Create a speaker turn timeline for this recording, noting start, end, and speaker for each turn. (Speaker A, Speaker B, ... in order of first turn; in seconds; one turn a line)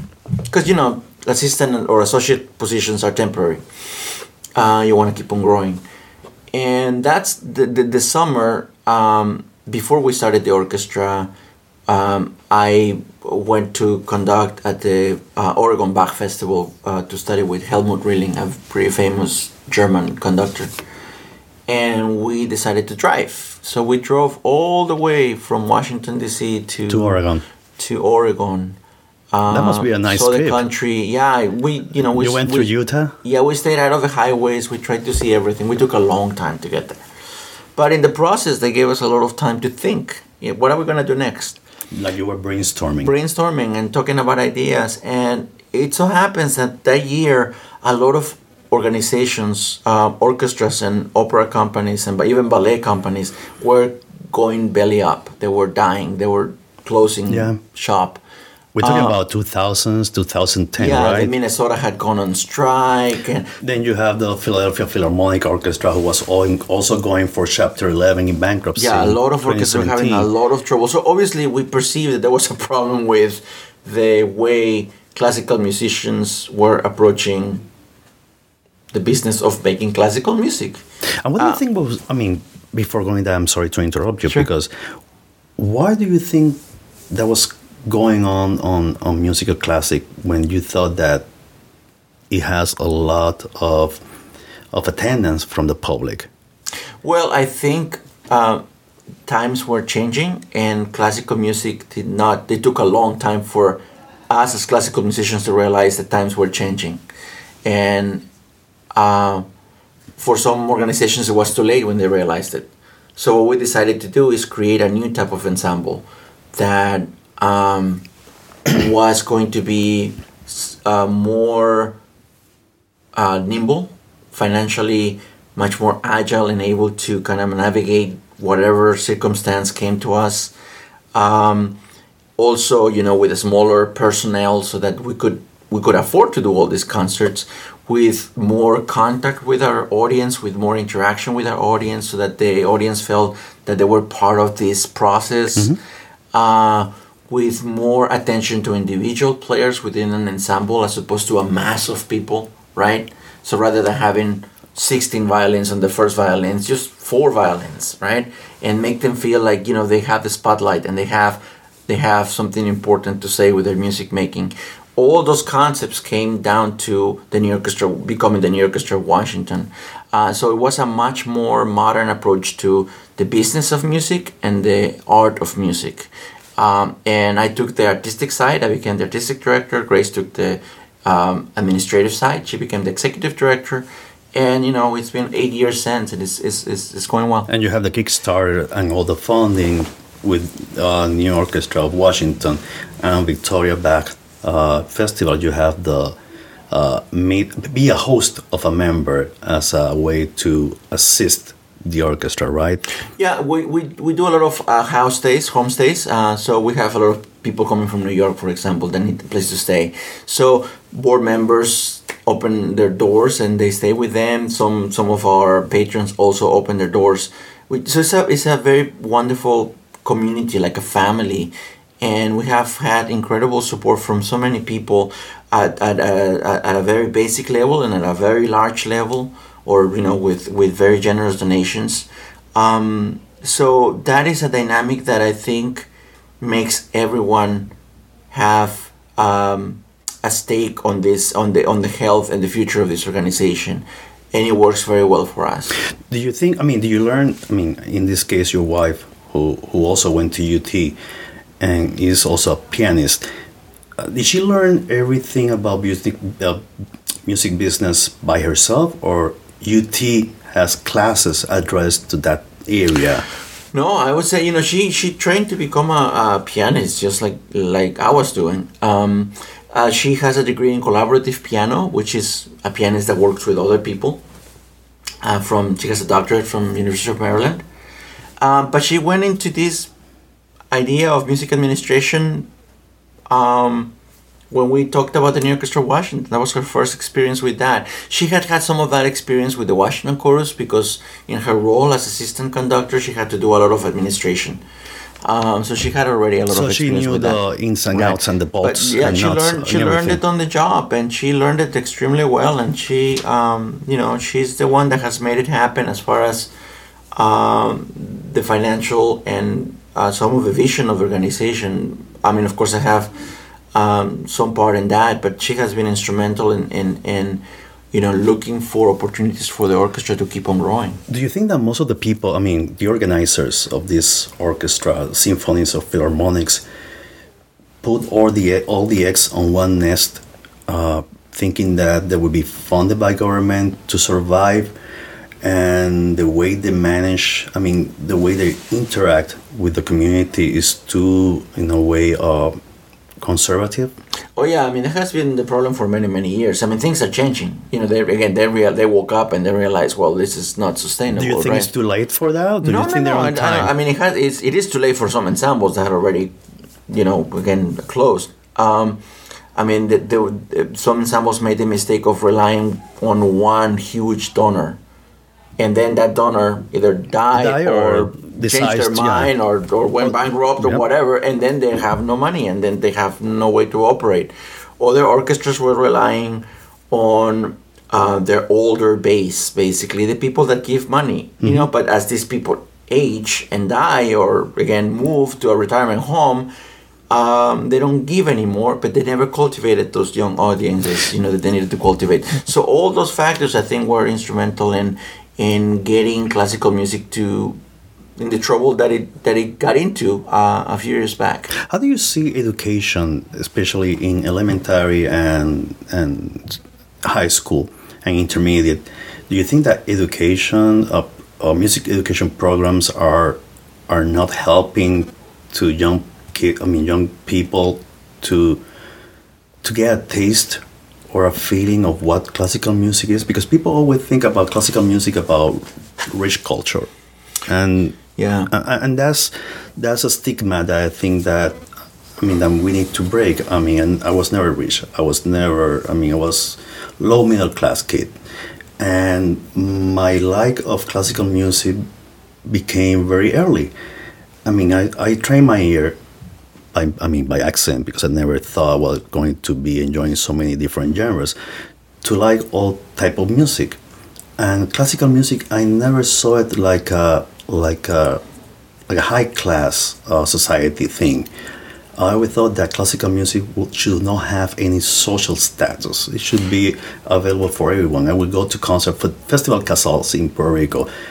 Speaker A: 0.5-5.8
Speaker A: 6.5-11.3
Speaker A: 11.9-20.7
Speaker A: 21.7-27.2
Speaker B: 26.9-27.4
Speaker A: 27.8-28.8
Speaker A: 29.3-32.7
Speaker B: 29.5-30.6
Speaker B: 32.1-33.1
Speaker A: 33.2-37.0
Speaker A: 37.8-41.6
Speaker B: 41.9-43.1
Speaker A: 43.0-58.2
Speaker B: 57.3-57.6
Speaker B: 58.8-61.3
Speaker A: 58.8-59.2
Speaker A: 60.8-63.5
Speaker B: 63.6-70.3
Speaker A: 68.8-77.6
Speaker A: 78.9-80.8
Speaker B: 81.2-84.7
Speaker B: 85.6-86.6
Speaker B: 87.1-91.2
Speaker B: 92.3-94.0
Speaker B: 94.7-96.3
Speaker A: 97.0-98.6
Speaker A: 99.2-107.0
Speaker A: 107.6-108.2
Speaker A: 108.9-109.5
Speaker A: 110.2-118.0
Speaker A: 118.7-122.0
Speaker A: 123.2-130.5
Speaker A: 131.1-131.8
Speaker A: 132.4-145.8
Speaker A: 146.3-187.5
Speaker B: 187.5-196.1
Speaker B: 196.7-202.8
Speaker A: 203.2-235.9
Speaker A: 236.4-237.7
Speaker A: 238.3-245.8
Speaker B: 246.1-250.9
Speaker B: 251.6-253.2
Speaker B: 254.0-256.6
Speaker B: 257.2-263.2
Speaker A: 263.7-274.2
Speaker A: 275.2-277.6
Speaker A: 278.4-279.9
Speaker A: 280.7-282.5
Speaker A: 283.3-283.9
Speaker A: 284.5-294.6
Speaker A: 295.2-297.4
Speaker B: 296.5-300.2
Speaker A: 297.9-306.5
Speaker A: 307.1-313.1
Speaker A: 313.7-321.0
Speaker B: 321.1-326.6
Speaker B: 327.8-334.7
Speaker B: 335.4-342.6
Speaker B: 343.2-343.9
Speaker A: 344.4-351.7
Speaker B: 351.1-353.7
Speaker A: 352.6-356.3
Speaker A: 356.9-359.0
Speaker A: 359.6-364.8
Speaker A: 365.6-386.5
Speaker B: 367.3-369.3
Speaker B: 370.0-370.8
Speaker B: 381.4-381.7
Speaker A: 387.1-397.6
Speaker A: 398.2-401.5
Speaker B: 401.5-418.6
Speaker B: 419.6-426.9
Speaker B: 427.5-428.0
Speaker A: 428.2-428.5
Speaker B: 428.5-431.6
Speaker B: 432.2-438.1
Speaker B: 438.8-441.8
Speaker B: 442.4-443.7
Speaker B: 444.4-446.0
Speaker B: 446.7-451.3
Speaker B: 452.0-453.8
Speaker B: 454.4-458.2
Speaker B: 458.9-461.3
Speaker B: 462.0-470.9